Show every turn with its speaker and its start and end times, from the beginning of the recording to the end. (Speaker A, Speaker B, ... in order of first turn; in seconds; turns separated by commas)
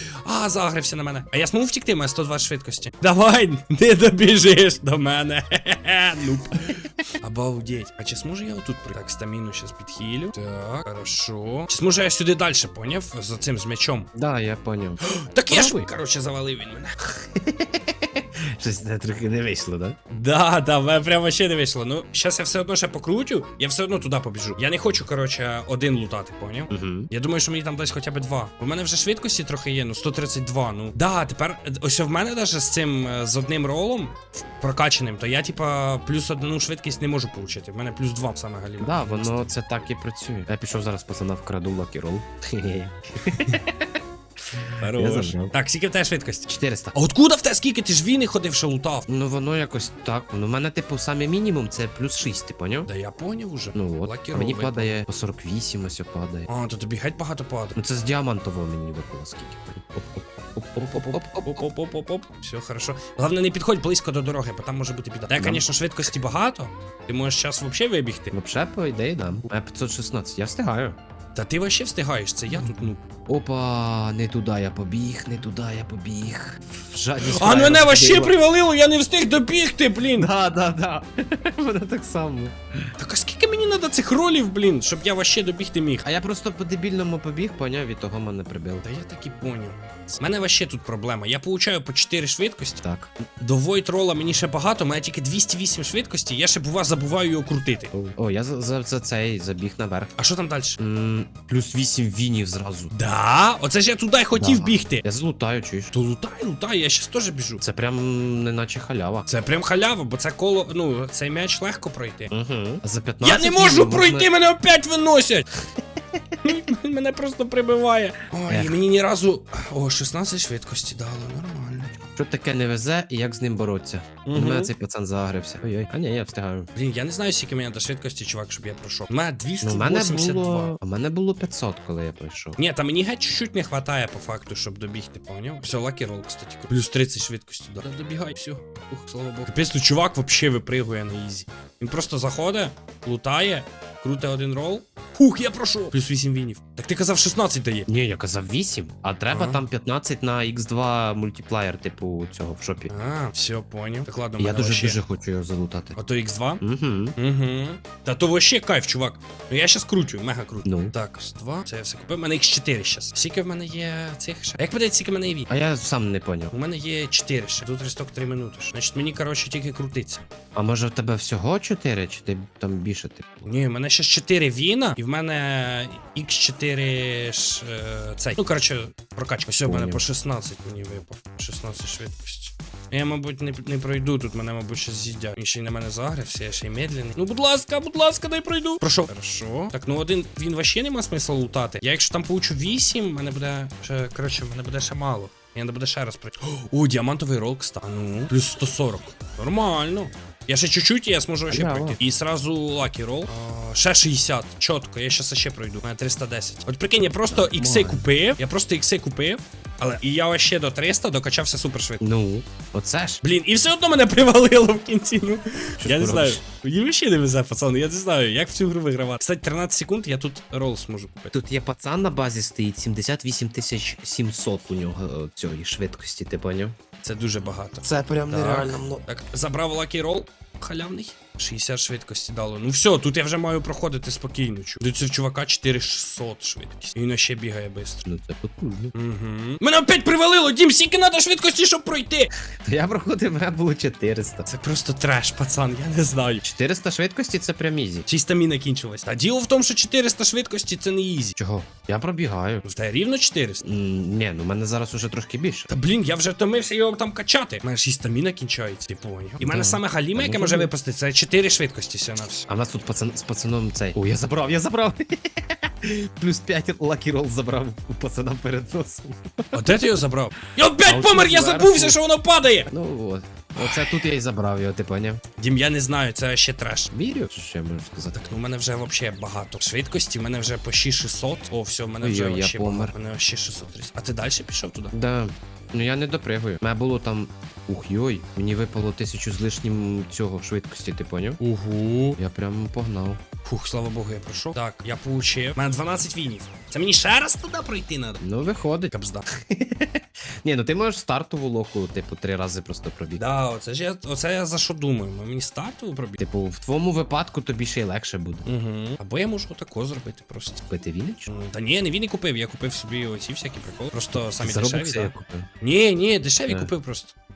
Speaker A: 0.2-14.1, Speaker B: 14.1-15.9, Speaker A: 15.0-16.9, Speaker B: 17.0-20.0, Speaker A: 20.1-39.5, Speaker B: 26.7-27.1, Speaker B: 38.8-44.0, Speaker B: 44.5-45.5, Speaker A: 44.8-49.1, Speaker B: 46.5-47.0, Speaker B: 49.1-52.9, Speaker A: 52.9-55.0, Speaker B: 53.7-56.5, Speaker A: 56.5-57.8, Speaker B: 57.8-61.6, Speaker A: 60.8-68.3, Speaker B: 65.4-65.7, Speaker B: 68.3-71.0, Speaker A: 71.3-73.0, Speaker B: 72.5-78.4, Speaker A: 77.2-80.3, Speaker B: 80.2-82.6, Speaker A: 83.0-86.0, Speaker B: 86.0-88.8, Speaker A: 88.8-92.8, Speaker B: 92.8-93.1, Speaker A: 93.4-97.9, Speaker B: 97.9-100.1, Speaker A: 100.2-100.8, Speaker B: 100.8-102.9, Speaker A: 102.9-105.0, Speaker B: 104.4-105.9, Speaker A: 105.9-107.6, Speaker B: 107.6-109.3, Speaker A: 109.3-112.3, Speaker B: 112.3-114.3, Speaker A: 113.2-115.5, Speaker B: 115.8-116.2, Speaker A: 116.4-122.0, Speaker B: 118.5-118.8, Speaker B: 122.2-126.7, Speaker A: 124.2-124.7, Speaker A: 126.8-130.8, Speaker B: 129.6-132.6, Speaker A: 132.6-147.9, Speaker B: 147.9-152.9, Speaker A: 149.3-149.6, Speaker A: 152.9-155.0, Speaker B: 154.4-156.0, Speaker A: 156.0-156.6, Speaker B: 156.6-157.2, Speaker A: 157.2-165.5, Speaker B: 160.6-160.9, Speaker B: 165.5-166.5, Speaker A: 166.5-170.2, Speaker B: 170.6-173.5, Speaker A: 173.4-212.0, Speaker B: 179.7-180.0, Speaker B: 201.5-202.0, Speaker B: 207.3-208.1, Speaker B: 212.0-213.2, Speaker A: 213.2-221.3, Speaker B: 215.8-216.4, Speaker B: 221.3-226.7, Speaker A: 227.0-238.1, Speaker B: 227.8-229.1, Speaker B: 238.1-238.9, Speaker A: 238.9-242.3, Speaker B: 242.7-244.5, Speaker A: 244.5-246.4, Speaker B: 246.4-248.1, Speaker A: 248.1-251.4, Speaker B: 251.4-252.7, Speaker A: 252.6-253.6, Speaker B: 253.6-255.7, Speaker A: 255.7-262.5, Speaker B: 259.4-260.7, Speaker B: 262.5-269.8, Speaker A: 269.5-272.7, Speaker B: 270.8-272.0, Speaker B: 272.7-275.2, Speaker A: 273.6-274.0, Speaker A: 275.4-276.9, Speaker B: 276.9-278.3, Speaker A: 278.1-284.9, Speaker B: 282.0-282.9, Speaker B: 284.9-291.4, Speaker A: 291.4-292.2, Speaker B: 292.2-293.2, Speaker A: 293.4-298.2, Speaker B: 298.2-303.2, Speaker A: 298.9-299.2, Speaker A: 303.2-306.2, Speaker B: 306.2-308.5, Speaker A: 308.4-310.6, Speaker B: 310.7-311.3, Speaker A: 311.3-317.1, Speaker B: 314.3-315.5, Speaker B: 316.5-316.7